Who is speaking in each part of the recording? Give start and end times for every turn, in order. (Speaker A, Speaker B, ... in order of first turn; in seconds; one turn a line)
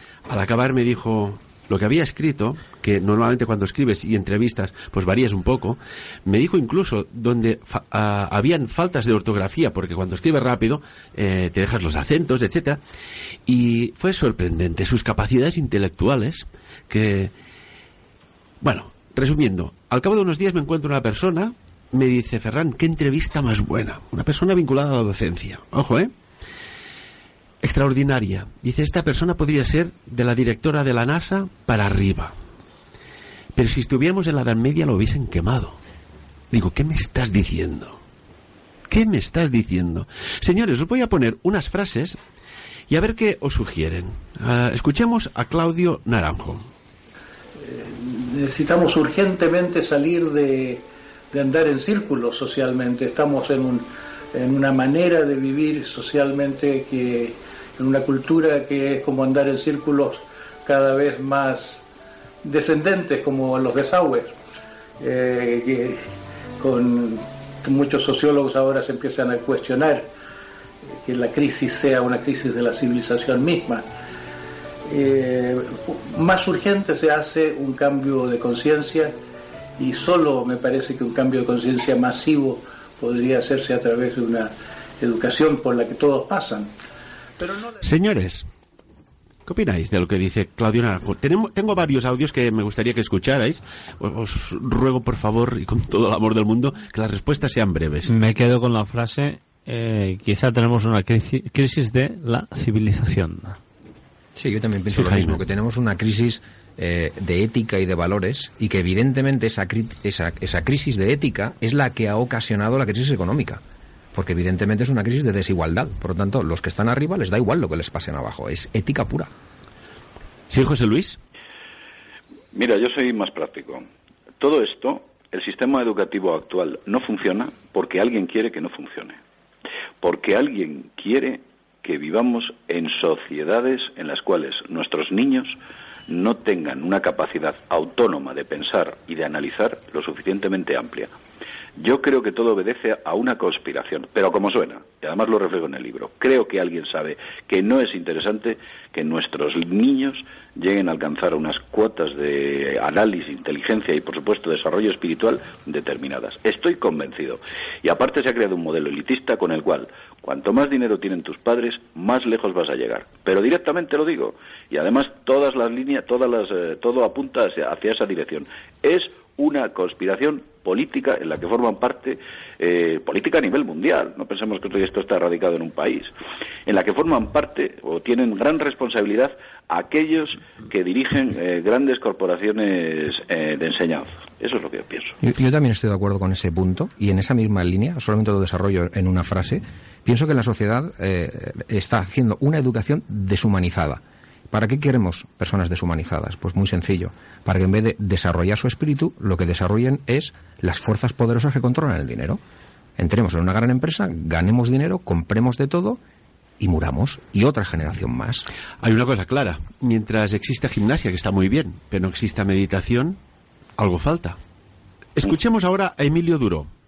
Speaker A: 0.3-12.8
Speaker A: 13.4-17.3
Speaker A: 18.6-26.1
Speaker A: 27.6-32.3
Speaker A: 33.5-35.8
Speaker A: 36.5-38.0
Speaker A: 38.9-42.2
Speaker A: 42.9-46.7
Speaker B: 47.6-61.8
Speaker B: 62.4-64.3
Speaker B: 65.0-66.0
Speaker B: 66.6-70.1
Speaker B: 71.0-73.8
Speaker B: 74.9-79.2
Speaker B: 79.8-86.7
Speaker A: 87.8-88.5
Speaker A: 89.5-98.1
Speaker C: 98.0-103.6
Speaker D: 104.3-113.6
Speaker A: 104.9-105.4
Speaker D: 114.1-119.3
Speaker A: 120.5-121.2
Speaker E: 122.5-123.9
Speaker E: 124.4-129.2
Speaker E: 130.0-135.6
Speaker E: 136.1-141.1
Speaker E: 141.8-176.1
Speaker E: 176.7-185.2
Speaker D: 185.2-202.4
Speaker D: 203.0-206.0
Speaker D: 206.6-208.4
Speaker A: 208.8-213.2
Speaker A: 213.8-214.4
Speaker A: 215.2-216.7